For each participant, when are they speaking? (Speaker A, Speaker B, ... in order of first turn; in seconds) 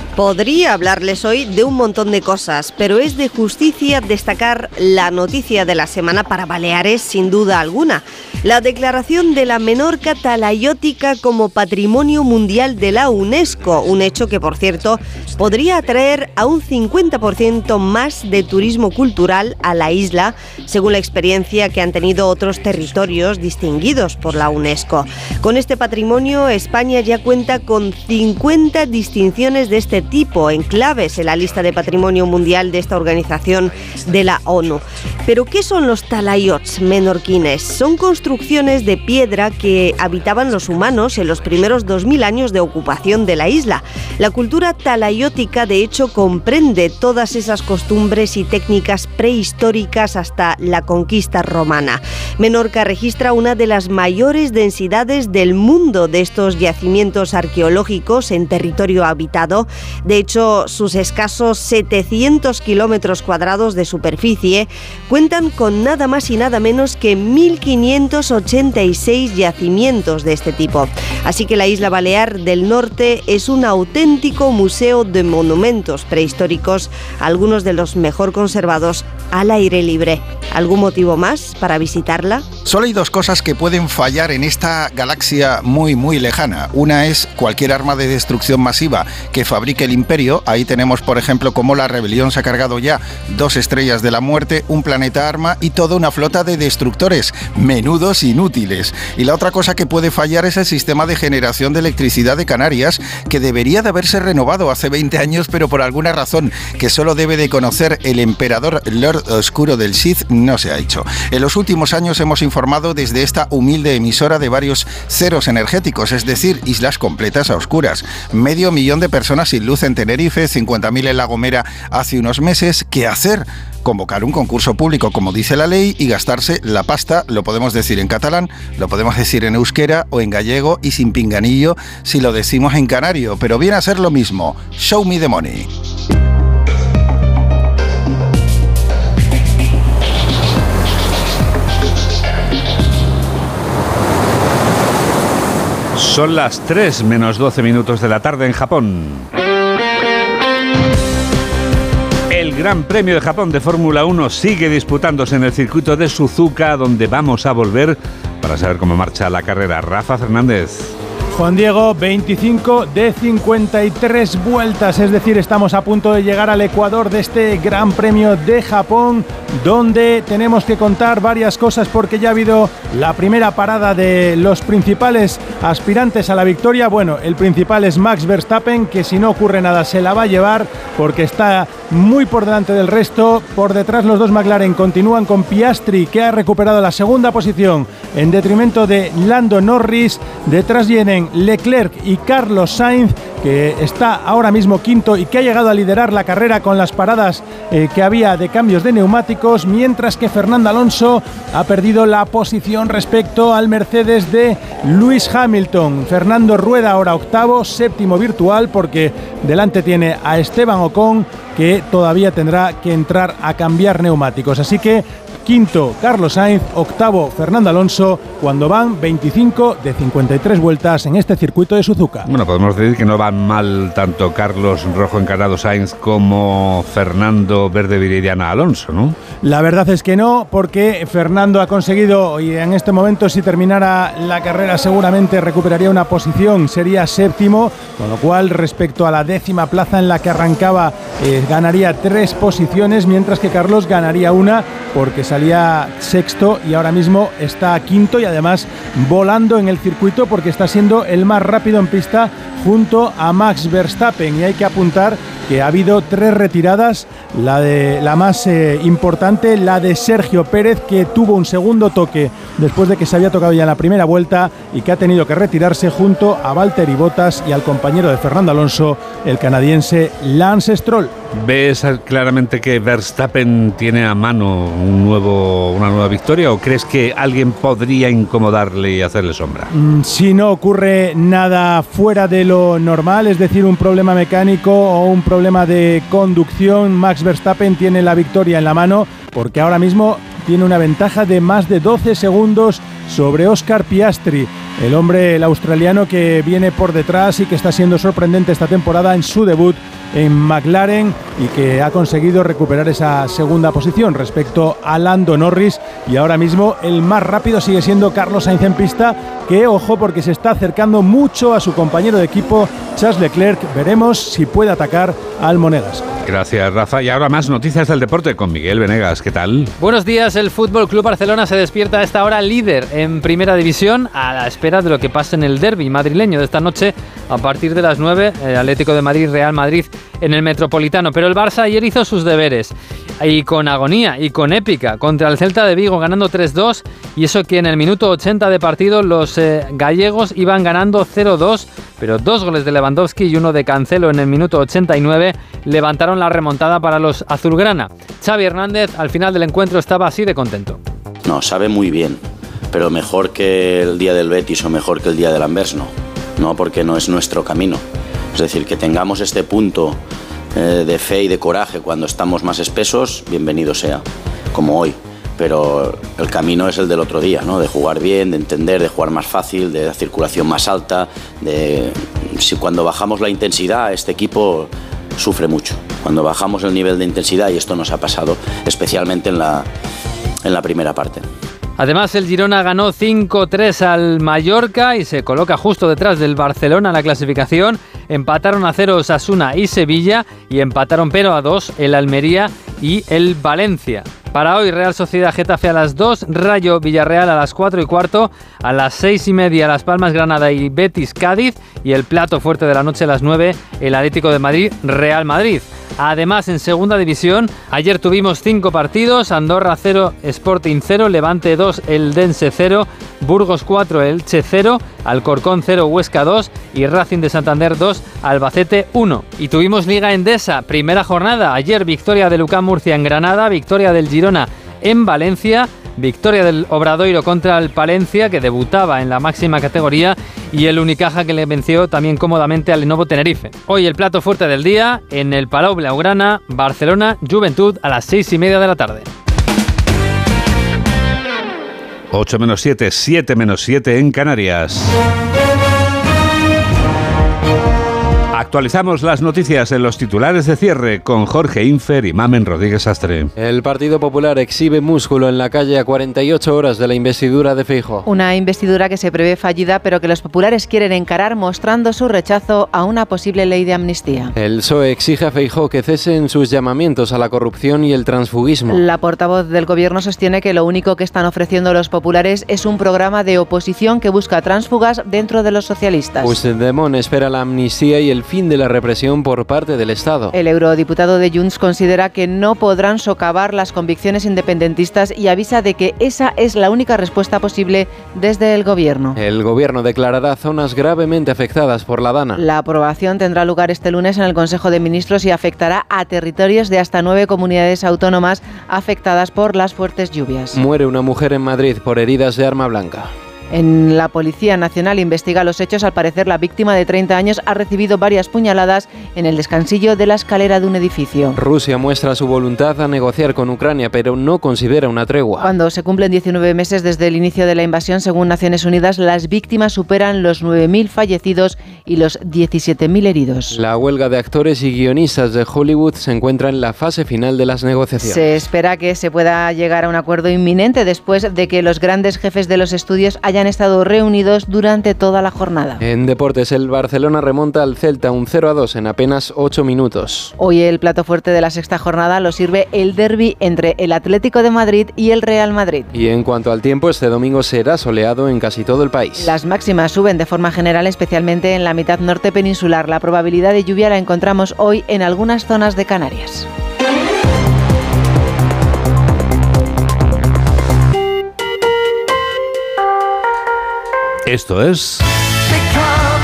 Speaker A: 0.2-82.4
Speaker B: 82.7-135.7
Speaker C: 145.9-149.3, 152.3-160.9, 222.3-229.2, 271.3-279.7, 316.2-319.7, 442.1-444.9, 448.3-453.3, 564.3-565.1
Speaker D: 161.3-222.3, 229.4-271.1, 279.7-316.0
Speaker E: 319.8-350.8, 381.8-439.1
Speaker F: 351.3-352.2, 352.7-357.8, 358.4-360.0, 360.6-364.0, 364.5-379.7, 380.4-381.2
Speaker G: 453.4-458.1, 464.4-468.8, 476.2-480.3, 489.2-492.4, 500.6-503.1, 511.4-515.5, 523.5-528.3, 535.8-540.3, 545.9-549.3
Speaker H: 458.1-464.3, 468.7-476.4, 480.3-489.2, 492.4-500.6, 503.5-511.4, 515.4-523.6, 528.0-535.8, 540.4-545.9, 549.2-556.5